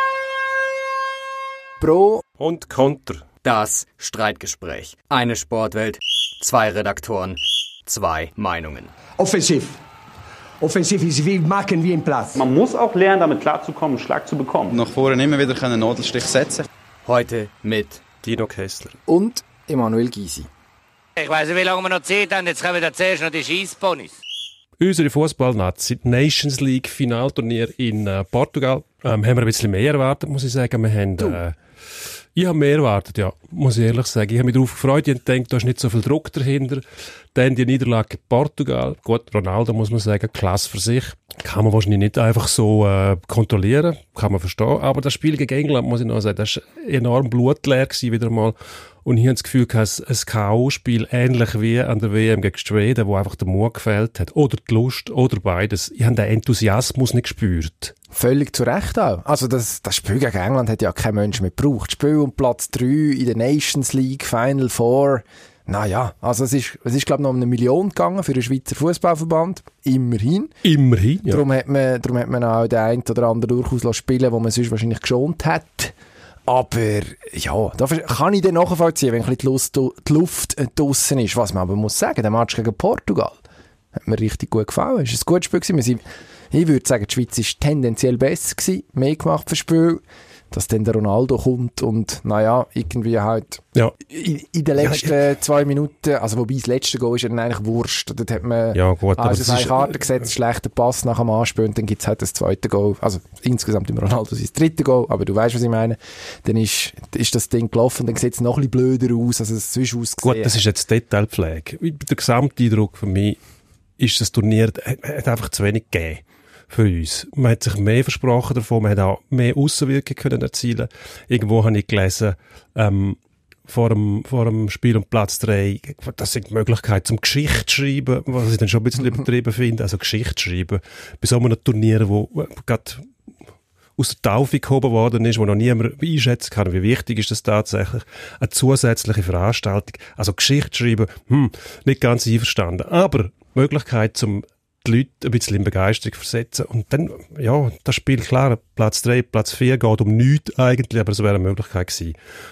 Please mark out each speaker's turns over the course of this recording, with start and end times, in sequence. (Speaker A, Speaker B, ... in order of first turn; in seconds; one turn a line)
Speaker A: 1.8-2.2
Speaker B: 2.4-3.3
Speaker C: 3.4-8.9
Speaker D: 9.2-9.8
Speaker D: 10.6-12.4
Speaker E: 12.3-14.8
Speaker F: 14.7-16.6
Speaker C: 17.1-18.0
Speaker B: 18.2-19.0
Speaker A: 19.1-20.5
Speaker G: 21.2-24.2
Speaker B: 24.8-31.6
Speaker B: 32.4-36.8
Speaker B: 37.3-57.9
Speaker A: 58.1-70.5
Speaker B: 70.6-71.4
Speaker A: 71.3-76.0
Speaker A: 76.5-83.4
Speaker A: 84.0-110.6
Speaker B: 94.8-95.1
Speaker B: 98.7-99.9
Speaker B: 110.2-113.4
Speaker B: 114.0-133.1
Speaker B: 134.0-152.2